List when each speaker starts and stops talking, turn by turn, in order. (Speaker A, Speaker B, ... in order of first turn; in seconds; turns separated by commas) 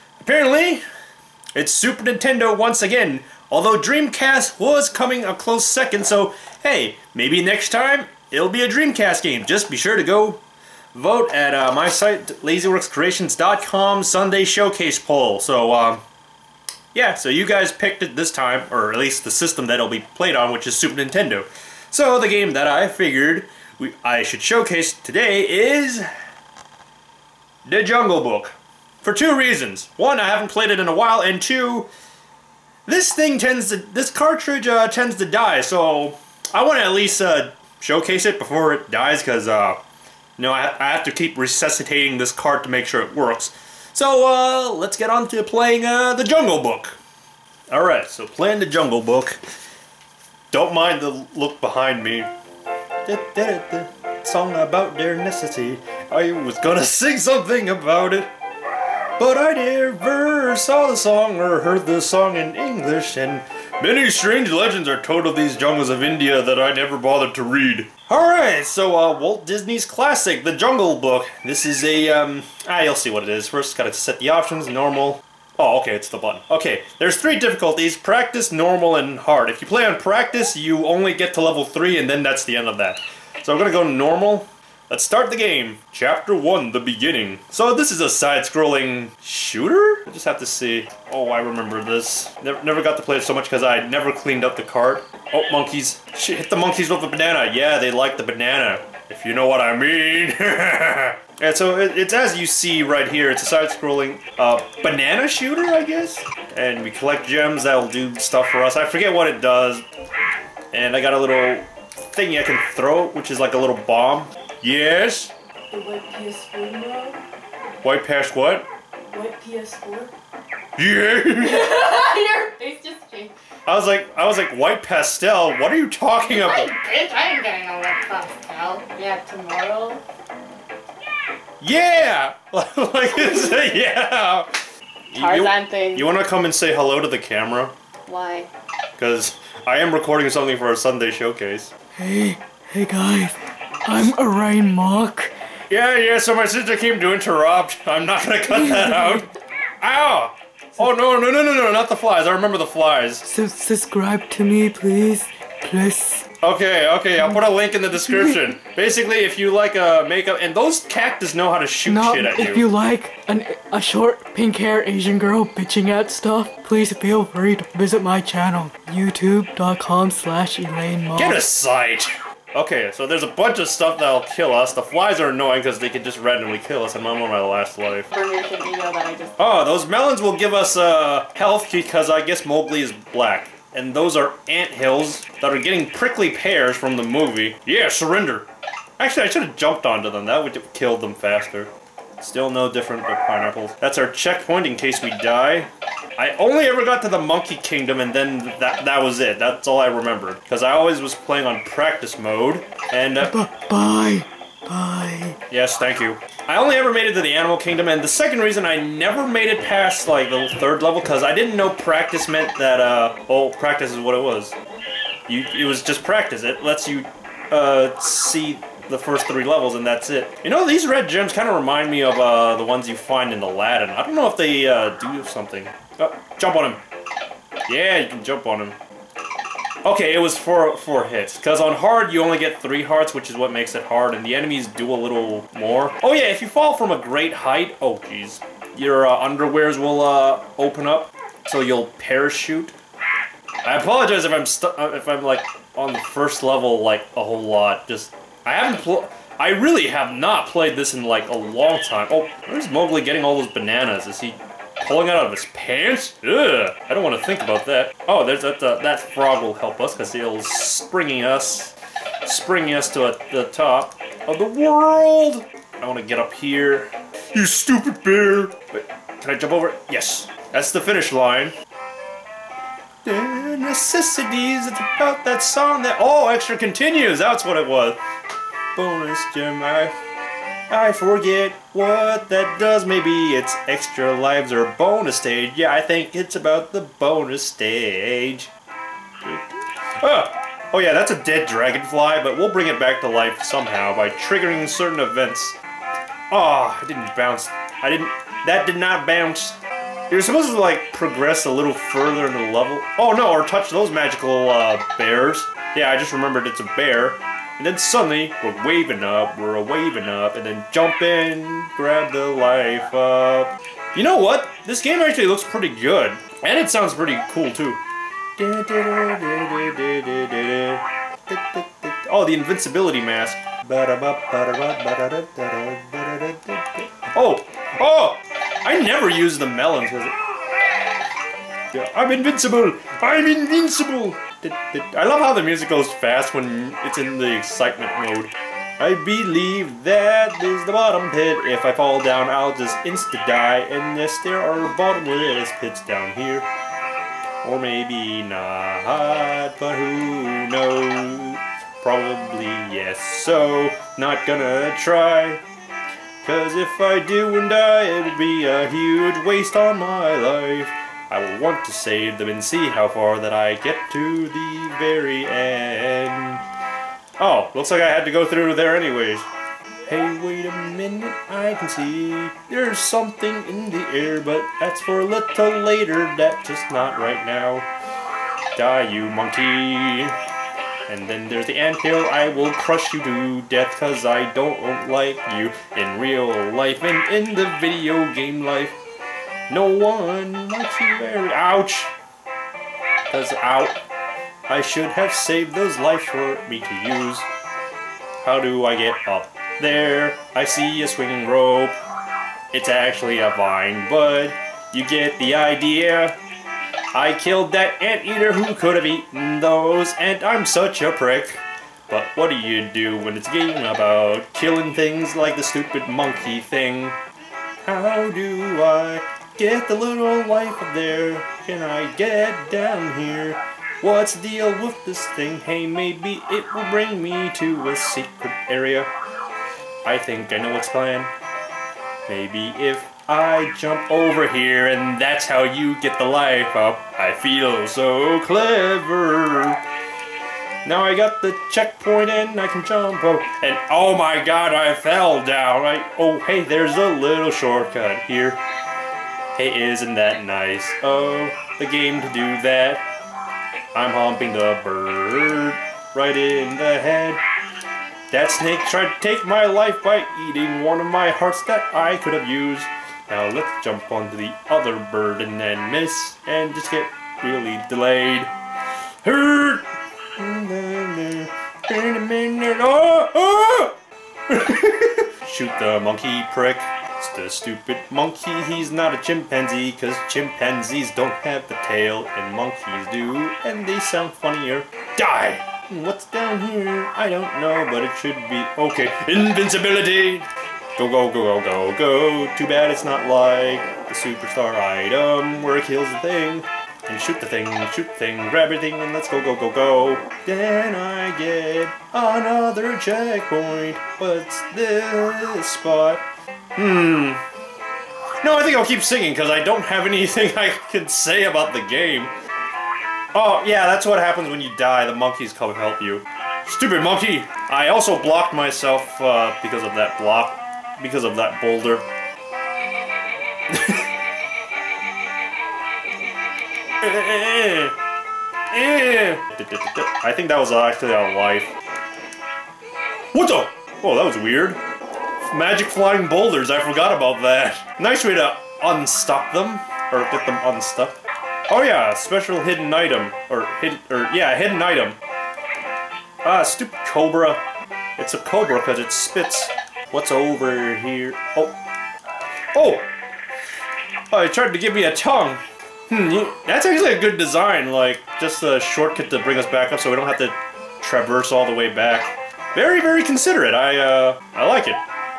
Speaker A: 0.2-0.8, Speaker A: 1.6-10.4, Speaker A: 10.9-16.0, Speaker A: 16.9-26.1, Speaker A: 27.6-31.9, Speaker A: 32.9-39.8, Speaker A: 40.4-47.0, Speaker A: 47.7-49.4, Speaker A: 50.5-52.3, Speaker A: 53.0-58.3, Speaker A: 59.2-109.9, Speaker A: 110.7-115.3, Speaker B: 115.7-117.2, Speaker A: 117.8-118.7, Speaker B: 119.1-120.1, Speaker A: 120.8-121.7, Speaker C: 121.4-123.3, Speaker A: 123.7-126.7, Speaker C: 126.2-130.0, Speaker A: 131.6-137.7, Speaker C: 133.1-133.8, Speaker C: 135.1-136.1, Speaker C: 138.1-138.5, Speaker A: 139.0-141.7, Speaker B: 142.0-145.3, Speaker A: 145.7-149.3, Speaker B: 148.5-149.3, Speaker A: 149.8-153.3, Speaker B: 153.2-156.3, Speaker A: 156.4-162.7, Speaker B: 158.1-158.6, Speaker B: 161.9-171.4, Speaker A: 171.2-178.1, Speaker C: 178.1-179.4, Speaker A: 179.4-188.5, Speaker A: 189.0-203.4, Speaker B: 203.2-205.4, Speaker A: 205.5-214.5, Speaker A: 215.3-226.8, Speaker A: 227.7-228.8, Speaker A: 229.8-242.8, Speaker A: 243.6-261.7, Speaker A: 262.2-271.6, Speaker A: 273.0-278.0, Speaker A: 278.8-280.0, Speaker A: 280.7-288.5, Speaker A: 289.2-289.5, Speaker A: 290.0-295.6, Speaker A: 296.3-299.6, Speaker A: 300.1-317.8, Speaker A: 318.4-330.2, Speaker A: 331.7-346.5, Speaker A: 347.4-355.4, Speaker A: 356.2-366.4, Speaker A: 367.2-369.3, Speaker A: 369.9-377.7, Speaker A: 378.6-380.2, Speaker A: 380.9-388.8, Speaker A: 389.5-391.9, Speaker A: 393.1-393.8, Speaker A: 394.5-397.3, Speaker A: 398.2-401.8, Speaker A: 402.5-406.2, Speaker A: 406.9-417.0, Speaker A: 417.6-428.9, Speaker A: 429.8-431.1, Speaker A: 432.1-439.6, Speaker A: 440.6-448.4, Speaker A: 449.4-452.9, Speaker A: 453.7-457.2, Speaker A: 458.1-468.3, Speaker A: 469.0-469.7, Speaker A: 470.2-473.8, Speaker A: 474.3-507.2, Speaker A: 508.2-512.1, Speaker A: 513.1-521.9, Speaker A: 523.5-523.8, Speaker A: 526.8-527.8, Speaker A: 528.5-531.5, Speaker A: 533.1-534.6, Speaker A: 535.2-545.0, Speaker A: 546.2-547.4, Speaker A: 548.0-551.6, Speaker A: 552.5-552.9, Speaker A: 554.1-564.8